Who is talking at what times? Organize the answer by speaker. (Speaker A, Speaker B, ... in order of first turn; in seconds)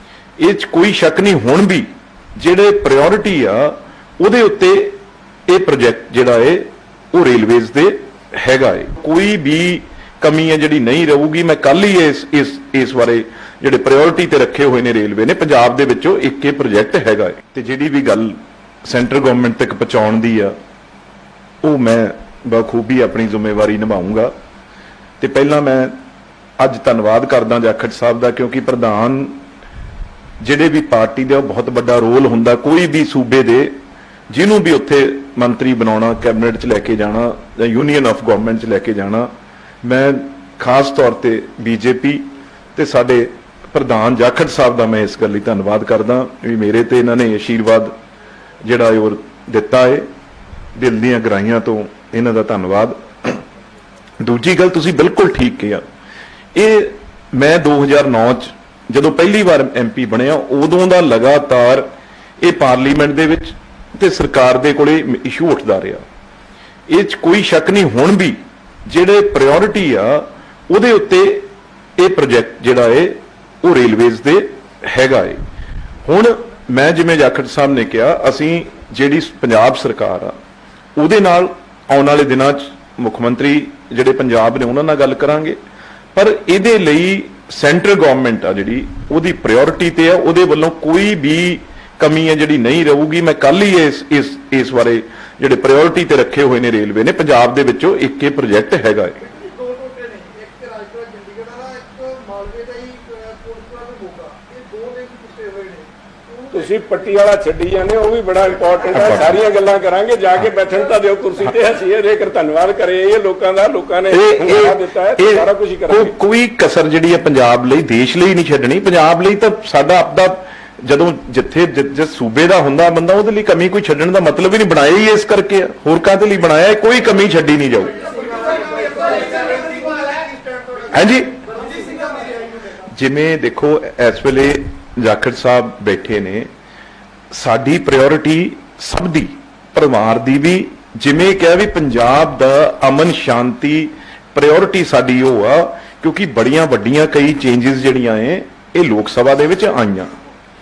Speaker A: 0.4-20.6, 21.6-24.3, 25.2-25.9, 26.6-29.4, 30.4-33.7, 34.3-39.3, 39.8-47.9, 48.6-50.1, 50.7-53.4, 54.2-55.8, 56.5-61.9, 62.4-66.0, 66.9-75.4, 76.0-80.3, 81.0-85.6, 86.1-99.2, 108.9-109.3, 114.1-128.1, 130.9-131.4, 132.8-136.5, 137.3-150.1
Speaker B: 99.2-106.5, 128.1-130.8, 131.7-132.3
Speaker C: 106.5-116.1